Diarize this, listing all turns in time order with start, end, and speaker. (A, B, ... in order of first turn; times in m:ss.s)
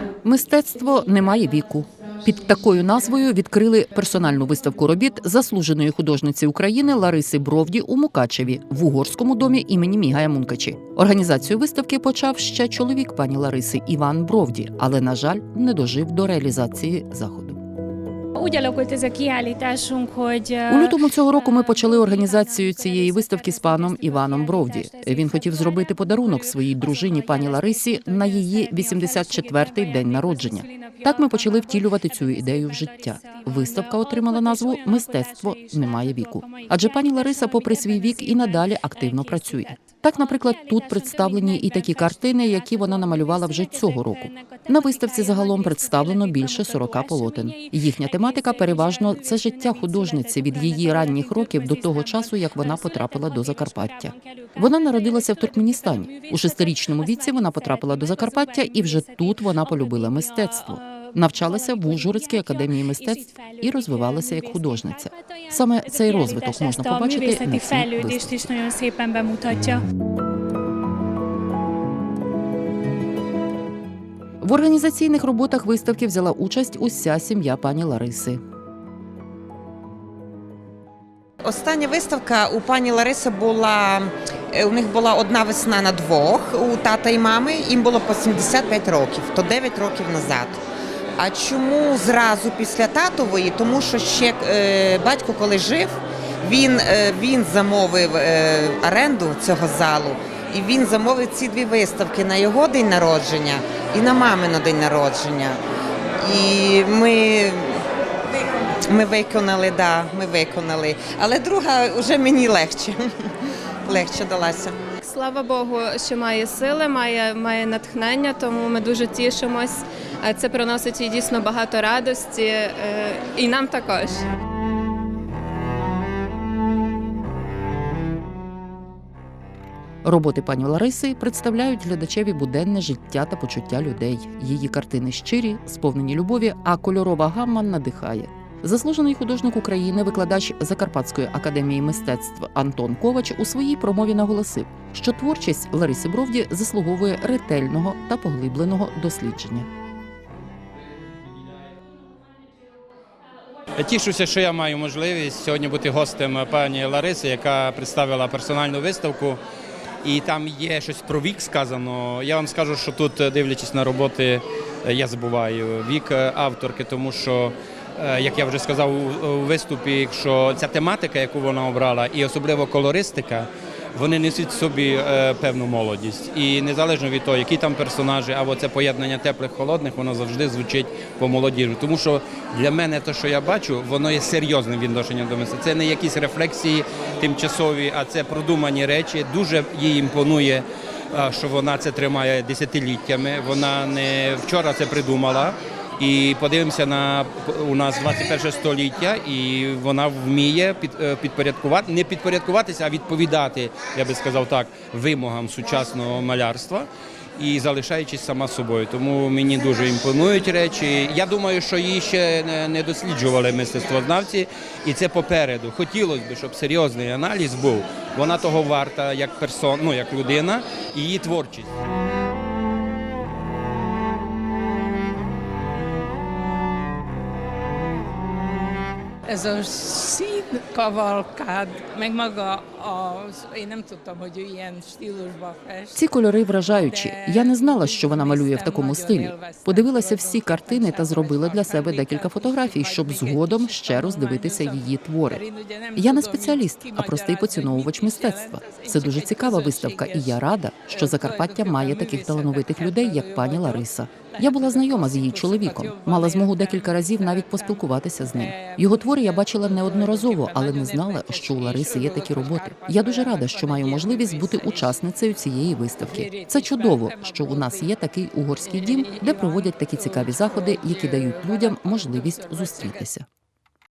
0:00.2-0:17.6 A
0:18.3-1:09.8 B
0:20.7-1:08.5 A
1:14.4-1:18.4 A
1:21.4-1:30.6 C
1:31.2-1:45.6 C
1:46.2-1:47.8 C
1:48.9-1:53.0 C
1:53.8-1:54.8 C
1:55.0-2:04.2 D
2:10.0-2:29.7 A
2:33.7-2:39.4 E
2:40.0-3:41.7 E
3:49.3-3:56.0 F
3:55.9-4:05.4 A
3:56.7-4:25.0 F
4:06.0-4:33.2 A
4:26.0-4:27.9 F
4:28.6-4:33.1 F